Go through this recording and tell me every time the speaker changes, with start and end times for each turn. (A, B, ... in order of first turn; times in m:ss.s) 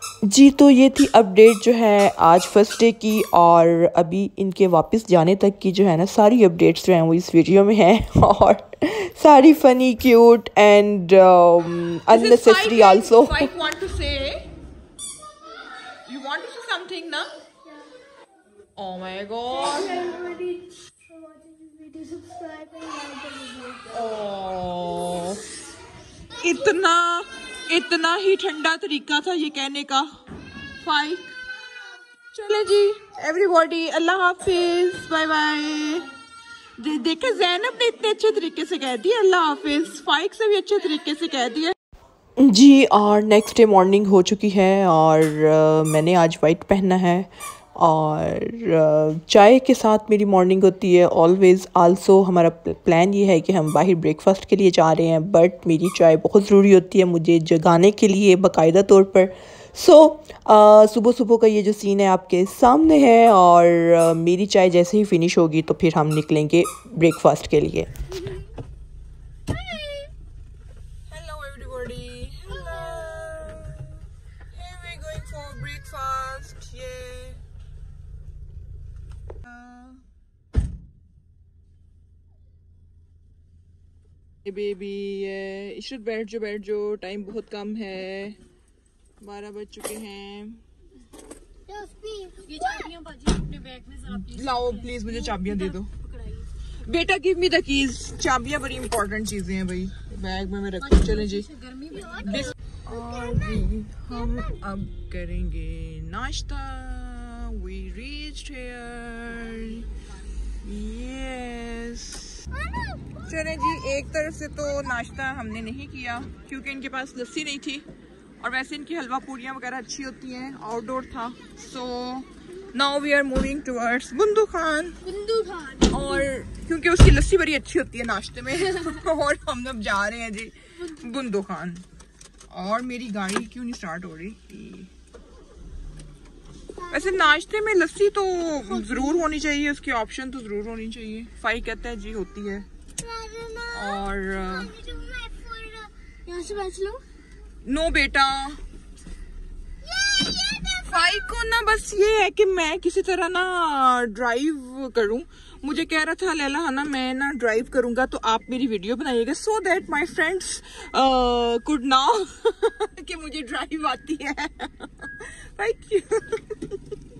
0:00.2-0:13.5 A
0:12.1-0:14.5 B
0:16.0-0:17.3 B
0:18.8-0:20.2 B
0:19.6-0:24.0 C
0:23.9-0:25.4 B
0:26.4-0:30.1 B
0:30.8-0:31.3 B
0:32.3-0:36.1 B
0:36.8-0:41.7 B
0:42.4-1:07.9 A
1:11.1-1:17.4 B
1:19.4-1:20.0 B
1:24.4-1:28.4 B
1:29.2-1:30.6 B
1:31.7-1:33.1 C
1:34.0-1:35.9 B
1:36.8-1:41.5 B
1:41.3-1:42.5 C
1:42.1-1:49.9 B
1:50.6-1:52.5 B
1:52.6-1:53.0 C
1:53.2-1:57.8 B
1:58.4-2:05.0 B
2:05.0-2:06.3 C
2:05.9-2:11.8 B
2:12.5-2:14.9 B
2:16.8-2:17.3 C
2:16.9-2:22.7 B
2:23.0-2:27.0 C
2:23.7-2:24.8 B
2:27.6-2:28.6 B
2:29.8-2:31.0 C
2:30.8-2:46.8 B